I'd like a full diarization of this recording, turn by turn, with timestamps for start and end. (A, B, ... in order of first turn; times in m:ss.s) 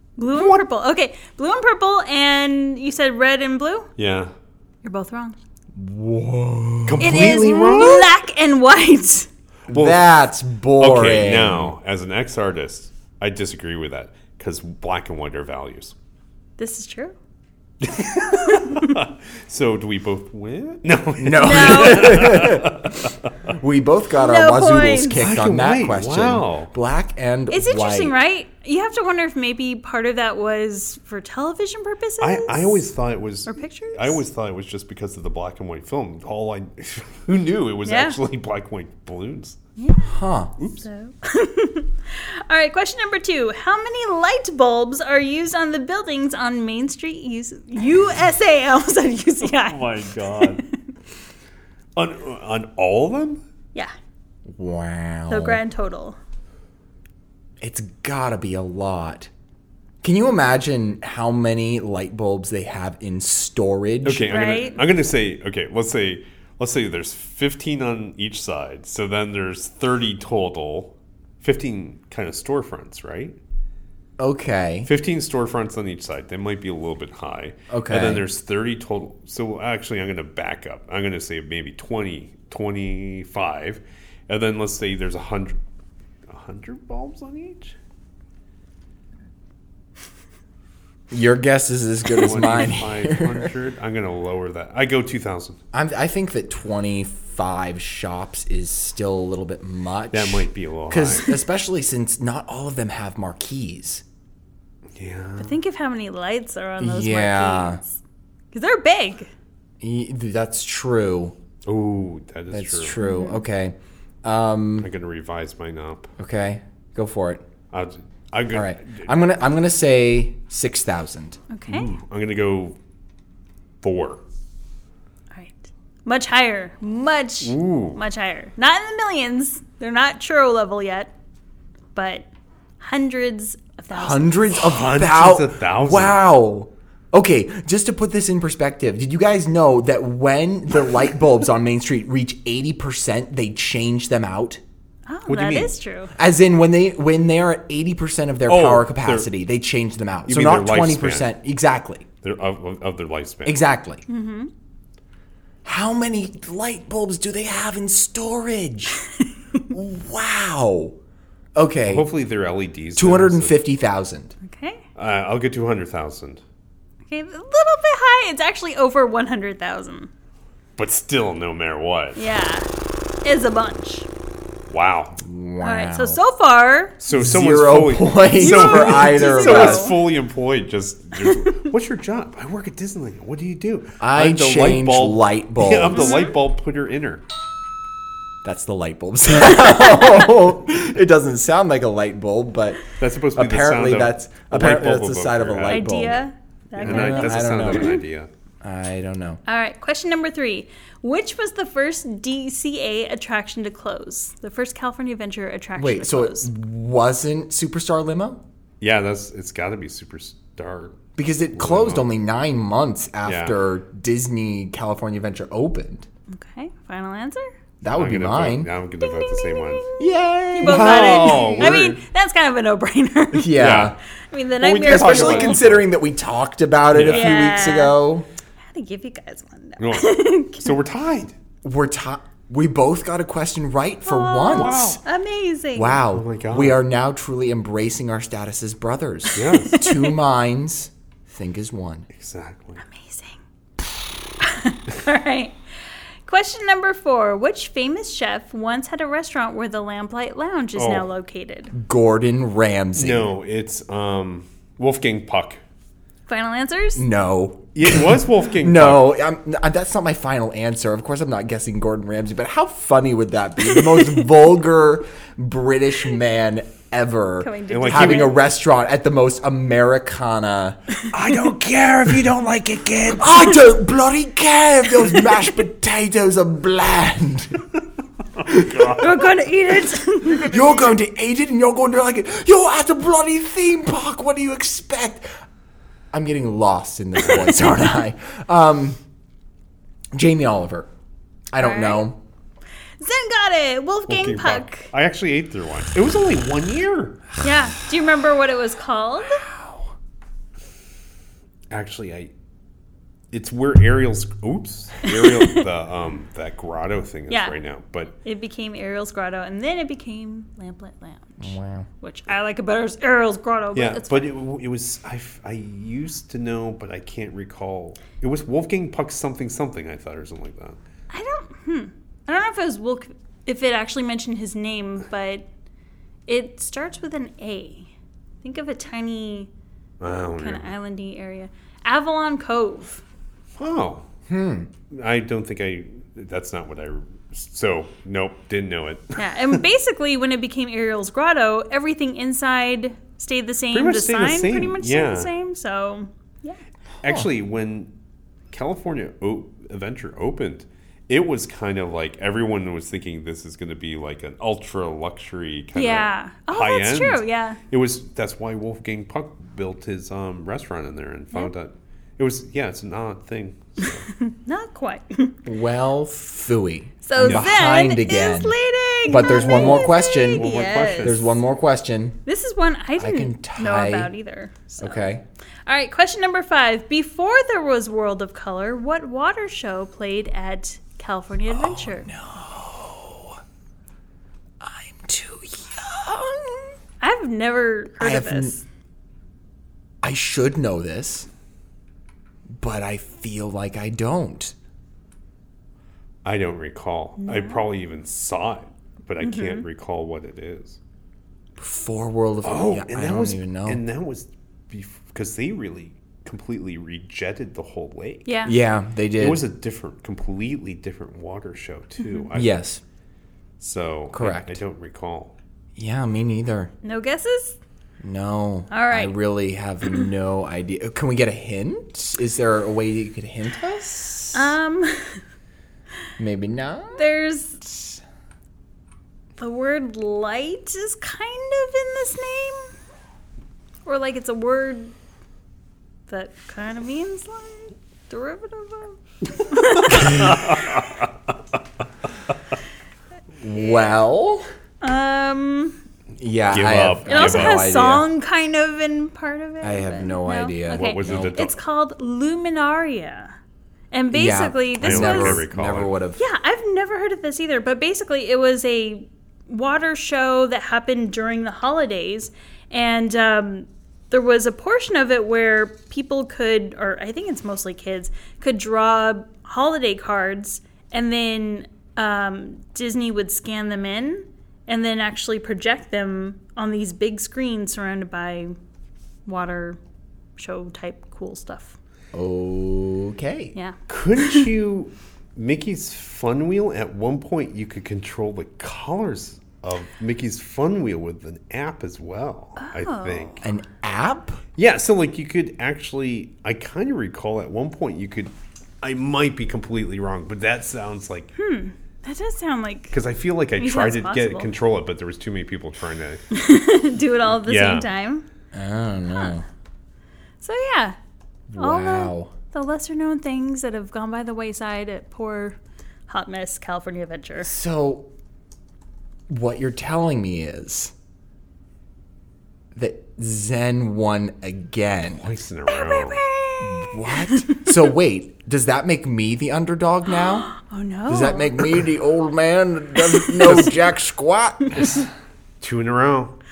0:00.2-0:03.9 A
0:00.4-0:00.6 B
0:04.0-0:04.3 B
0:04.8-0:05.4 A
0:05.8-0:07.6 C
0:06.9-0:08.1 B
0:07.0-0:09.3 A
0:09.7-0:10.2 B
0:09.7-0:11.7 C
0:10.8-0:16.0 B
0:16.6-0:17.2 A
0:17.8-0:23.3 B
0:18.3-0:19.0 A
0:21.2-0:22.9 C
0:21.4-0:22.2 A
0:23.5-0:28.2 C
0:24.2-0:25.2 A
0:25.2-0:26.7 B
0:27.5-0:32.9 A
0:32.2-0:39.6 B
0:33.5-0:34.2 A
0:37.8-0:38.2 A
0:39.8-0:40.2 A
0:40.0-0:40.5 C
0:40.6-0:40.8 B
0:40.8-0:50.8 A
0:49.4-0:50.6 B
0:52.0-0:53.4 B
0:54.5-0:55.6 C
0:55.3-0:56.2 A
0:57.6-0:59.3 C
1:00.0-1:04.3 C
1:04.0-1:13.4 B
1:04.3-1:04.8 A
1:14.2-1:14.9 C
1:14.8-1:25.6 B
1:17.7-1:18.2 C
1:26.3-1:27.8 B
1:31.1-1:33.5 C
1:32.1-1:35.6 B
1:35.7-1:44.0 C
1:40.1-1:41.3 B
1:45.0-1:45.6 B
1:45.4-1:48.0 A
1:46.8-1:47.8 C
1:48.5-1:49.3 A
1:49.8-1:51.4 C
1:51.6-1:53.0 B
1:52.5-1:54.9 C
1:53.0-1:53.4 A
1:54.8-1:56.1 B
1:56.2-1:57.4 C
1:57.7-1:59.1 B
1:58.5-2:01.4 C
2:01.5-2:01.9 A
2:01.7-2:02.8 B
2:03.8-2:04.2 B
2:05.3-2:11.1 A
2:07.4-2:08.0 B
2:12.0-2:12.3 A
2:12.8-2:14.6 A
2:13.9-2:24.6 C
2:14.6-2:16.2 B
2:25.1-2:26.1 A
2:25.3-2:25.7 B
2:26.2-2:32.0 C
2:28.5-2:29.3 B
2:30.3-2:31.3 B
2:32.2-2:33.6 B
2:33.5-2:34.0 C
2:34.1-2:34.5 A
2:35.6-2:39.0 C
2:39.7-2:41.0 C
2:41.6-2:42.1 C
2:41.9-2:43.6 B
2:43.0-2:44.4 C
2:44.4-2:44.8 A
2:45.0-2:46.4 B
2:47.1-2:50.1 A
2:50.8-2:52.3 B
2:52.2-2:52.7 A
2:53.2-2:54.1 A
2:54.7-2:55.2 B
2:55.2-2:56.2 C
2:55.6-2:57.0 A
2:57.0-3:07.2 B
2:57.1-3:00.0 C
2:58.4-2:59.9 A
3:01.2-3:01.7 A
3:04.0-3:06.2 C
3:05.9-3:06.3 A
3:08.4-3:16.2 C
3:09.9-3:10.2 A
3:13.0-3:16.0 B
3:15.7-3:18.0 A
3:16.8-3:18.3 B
3:16.8-3:18.0 C
3:18.6-3:19.4 C
3:19.5-3:26.5 A
3:25.8-3:28.4 C
3:28.8-3:31.0 B
3:31.2-3:36.1 C
3:31.5-3:32.1 B
3:33.2-3:33.6 B
3:36.3-3:37.5 A
3:37.8-3:38.7 C
3:38.0-3:39.9 B
3:39.0-3:43.8 A
3:40.0-3:41.9 C
3:40.6-3:42.0 B
3:43.3-3:44.0 C
3:43.6-3:44.0 B
3:44.3-3:45.6 A
3:44.6-3:45.8 B
3:44.8-3:48.3 C
3:46.9-3:47.5 B
3:47.1-3:48.0 A
3:48.7-3:50.8 A
3:49.8-3:51.4 B
3:51.6-3:55.0 C
3:54.0-3:56.0 A
3:54.5-3:55.0 B
3:55.8-4:02.1 C
3:56.1-3:56.8 B
3:59.4-3:59.8 B
3:59.7-4:00.1 A
4:02.2-4:02.8 B
4:02.8-4:03.4 A
4:04.4-4:05.6 A
4:06.2-4:11.7 A
4:10.8-4:11.1 B
4:11.7-4:13.3 C
4:13.0-4:15.6 B
4:16.3-4:17.1 A
4:17.0-4:37.6 C
4:17.8-4:19.1 B
4:27.4-4:28.4 A
4:27.7-4:28.4 B
4:31.1-4:33.3 B
4:38.5-4:39.1 C
4:38.7-4:39.1 B
4:39.0-4:40.7 A
4:40.4-4:45.3 C
4:46.1-4:49.0 C
4:50.1-4:50.9 C
4:51.5-4:52.2 C
4:51.6-4:52.1 A
4:53.0-4:54.9 A
4:54.1-4:57.2 B
4:57.4-4:59.4 A
4:59.4-4:59.9 C
5:01.7-5:02.3 B
5:03.3-5:08.1 B
5:05.1-5:05.6 A
5:07.3-5:07.6 A
5:08.2-5:14.3 A
5:11.4-5:11.9 C
5:13.8-5:20.8 B
5:21.1-5:25.5 A
5:26.3-5:29.5 A
5:30.0-5:30.7 B
5:30.4-5:33.0 A
5:33.6-5:34.1 B
5:34.3-5:34.7 C
5:34.9-5:39.6 B
5:39.2-5:46.6 A
5:43.7-5:45.3 B
5:47.0-5:47.9 B
5:48.5-6:04.1 B
5:55.8-5:57.6 A
6:04.2-6:05.4 A
6:05.5-6:12.2 C
6:07.0-6:11.1 A
6:10.4-6:11.4 B
6:12.3-6:15.1 A
6:13.0-6:14.1 C
6:14.8-6:15.2 C
6:15.7-6:22.1 A
6:21.5-6:23.4 C
6:24.6-6:26.8 C
6:27.0-6:28.6 A
6:28.0-6:28.6 C
6:30.0-6:31.3 C
6:32.6-6:34.6 C
6:36.2-6:40.8 B
6:37.2-6:37.6 A
6:39.2-6:39.6 A
6:41.6-6:43.8 C
6:42.4-6:48.3 B
6:48.3-6:48.6 A
6:48.4-6:49.4 C
6:49.2-6:52.6 B
6:52.0-6:52.3 A
6:52.3-6:52.8 C
6:53.6-6:55.4 B
6:54.1-6:54.6 C
6:55.8-6:56.7 C
6:56.8-6:57.6 A
6:58.0-7:04.6 C
6:58.7-6:59.2 A
7:04.3-7:05.2 A
7:06.2-7:07.1 C
7:07.0-7:07.6 A
7:07.6-7:08.0 C
7:09.4-7:12.7 A
7:13.9-7:14.9 A
7:16.1-7:20.6 A
7:19.9-7:21.1 B
7:23.4-7:24.5 C
7:24.8-7:25.8 A
7:26.2-7:28.1 C
7:26.5-7:27.6 B
7:27.1-7:33.4 A
7:29.6-7:31.4 C
7:30.7-7:31.6 B
7:33.9-7:35.4 A
7:34.1-7:36.2 C
7:34.8-7:35.9 B
7:36.2-7:58.6 A
7:59.3-7:59.8 A
8:00.4-8:01.8 A
8:02.1-8:03.5 C
8:03.9-8:13.5 B
8:12.6-8:13.5 A
8:13.4-8:14.4 C
8:14.6-8:21.3 B
8:21.4-8:23.0 A
8:22.9-8:26.2 B
8:23.6-8:24.5 A
8:26.3-8:28.3 A
8:27.4-8:27.9 B
8:28.5-8:29.4 C
8:30.4-8:31.0 A
8:31.5-8:32.3 C
8:31.6-8:37.5 A
8:37.4-8:38.1 C
8:39.3-8:40.9 C
8:42.7-8:45.3 C
8:45.1-8:46.2 B
8:45.7-8:47.7 A
8:46.6-8:50.5 C
8:50.1-8:51.8 A
8:51.1-8:55.1 C
8:53.1-8:53.6 A
8:53.4-8:53.8 B
8:54.7-8:55.0 A
8:55.6-8:56.4 B